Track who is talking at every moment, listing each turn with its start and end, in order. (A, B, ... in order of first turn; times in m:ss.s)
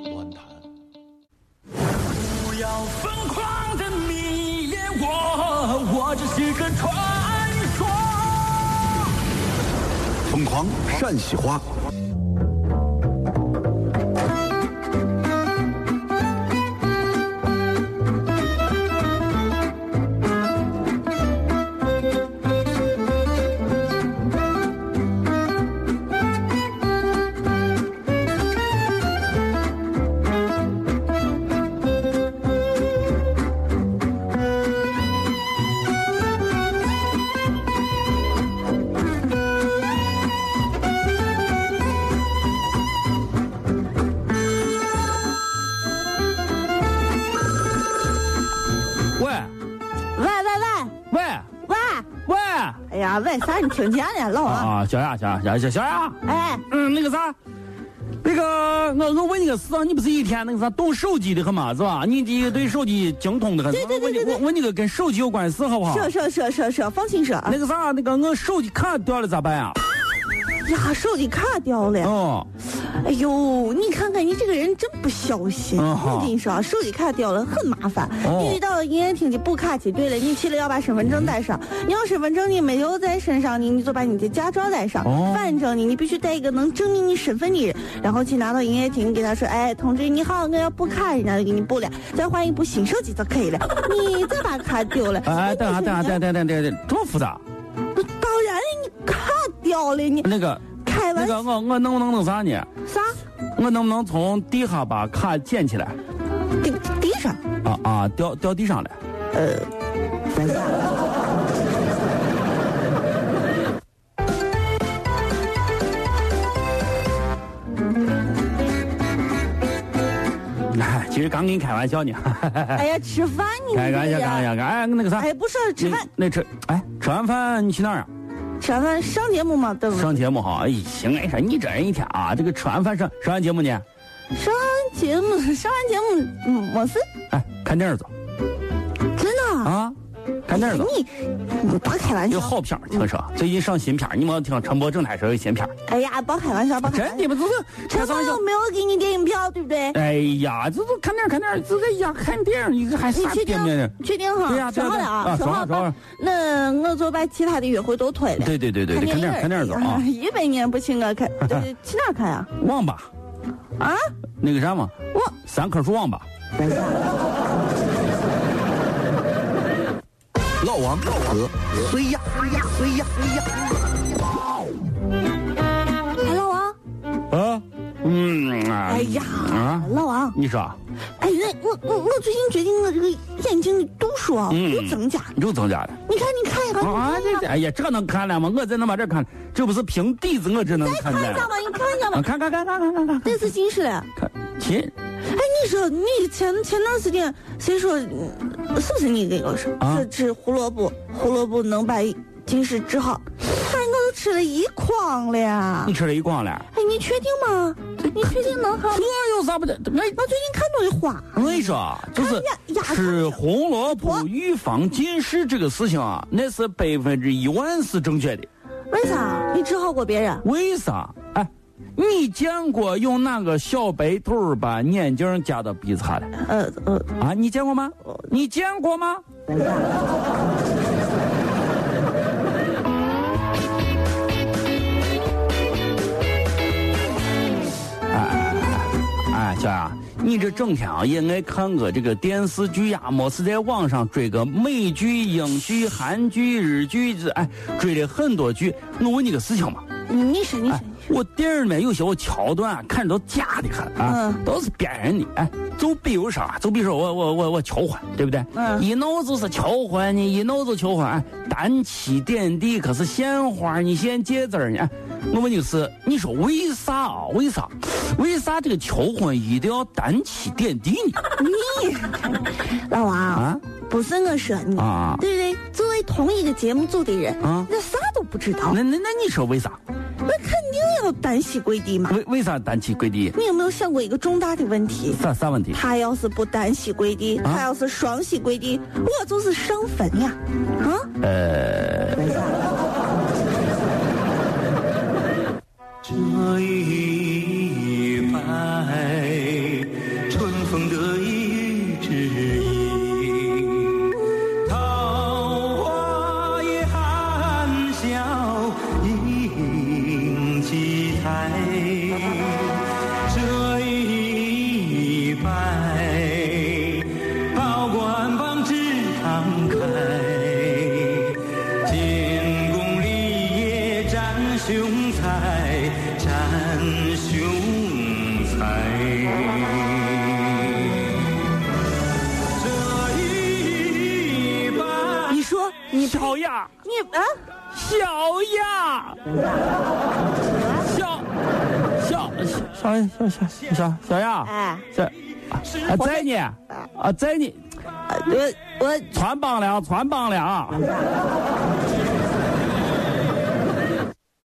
0:02.2-0:08.4 A
0:10.3-0:11.6 B
0:49.2-0:49.5 A
0:50.1-0:50.9 C
0:51.1-0:51.5 A
0:51.6-0:52.1 C
0:52.2-0:52.8 A
0:52.9-0:54.7 C
0:54.4-0:56.2 A
0:56.2-0:56.6 C
0:56.7-0:57.4 A
0:58.2-1:06.1 A
1:03.7-1:04.4 C
1:05.8-1:07.6 C
1:07.5-1:09.8 A
1:10.6-1:12.1 C
1:12.0-1:12.5 A
1:12.7-1:36.2 C
1:15.8-1:16.3 A
1:18.2-1:18.6 A
1:25.0-1:25.5 A
1:35.2-1:37.4 A
1:37.9-1:41.4 C
1:40.2-1:42.7 A
1:42.9-1:43.2 C
1:43.5-1:46.0 A
1:46.6-1:47.4 C
1:47.6-1:49.0 A
1:49.3-1:49.7 C
2:00.6-2:02.8 A
2:02.7-2:04.5 C
2:03.7-2:05.3 A
2:05.2-2:06.1 C
2:05.8-2:08.1 A
2:08.6-2:10.2 C
2:09.9-2:13.8 A
2:14.3-2:17.0 C
2:17.3-2:18.1 A
2:19.1-2:19.7 C
2:19.6-2:20.0 A
2:20.5-2:20.9 A
2:20.5-2:23.0 C
2:22.3-2:25.7 A
2:25.8-2:27.3 C
2:26.8-2:28.4 A
2:27.9-2:30.0 C
2:29.9-2:34.0 A
2:33.1-2:42.5 C
2:34.5-2:36.0 A
2:38.4-2:40.0 A
2:42.6-2:43.1 A
2:43.8-2:44.1 C
2:44.4-2:46.2 A
2:50.6-2:53.3 B
2:56.2-2:56.8 C
2:57.3-3:00.8 A
2:58.9-3:00.4 C
3:01.2-3:05.3 C
3:04.5-3:06.0 A
3:06.0-3:07.5 C
3:06.8-3:11.5 A
3:10.7-3:12.2 C
3:12.1-3:13.4 A
3:13.2-3:14.1 C
3:14.2-3:14.9 A
3:15.2-3:25.9 C
3:19.8-3:20.1 A
3:25.8-3:26.7 A
3:26.7-3:29.1 C
3:28.1-3:30.2 A
3:30.0-3:34.3 C
3:31.3-3:38.5 A
3:38.9-3:40.4 C
3:40.4-3:46.3 A
3:46.4-3:47.1 C
3:47.2-3:49.2 A
3:58.1-4:09.8 A
4:10.1-4:11.0 C
4:10.7-4:31.2 A
4:14.0-4:14.4 C
4:18.5-4:18.9 C
4:31.4-4:38.8 C
4:33.3-4:33.6 A
4:34.8-4:35.2 A
4:37.4-4:37.7 A
4:38.7-4:39.8 A
4:40.2-4:42.2 C
4:42.1-4:43.4 A
4:43.3-4:51.1 C
4:45.2-4:45.8 A
4:51.2-4:52.3 A
4:56.0-5:03.8 D
5:04.7-5:30.5 D
5:05.3-5:06.4 A
5:07.4-5:08.2 A
5:11.9-5:12.2 A
5:14.7-5:15.7 A
5:16.4-5:16.8 A
5:17.8-5:18.4 A
5:32.8-5:35.2 D
5:35.3-5:37.4 C
5:35.9-5:36.7 A
5:37.7-5:39.3 A
5:40.5-5:40.9 C
5:40.8-5:41.3 A
5:41.9-5:47.6 A
5:44.4-5:44.9 C
5:45.8-5:46.9 C
5:48.1-5:49.1 C
5:49.1-5:50.9 A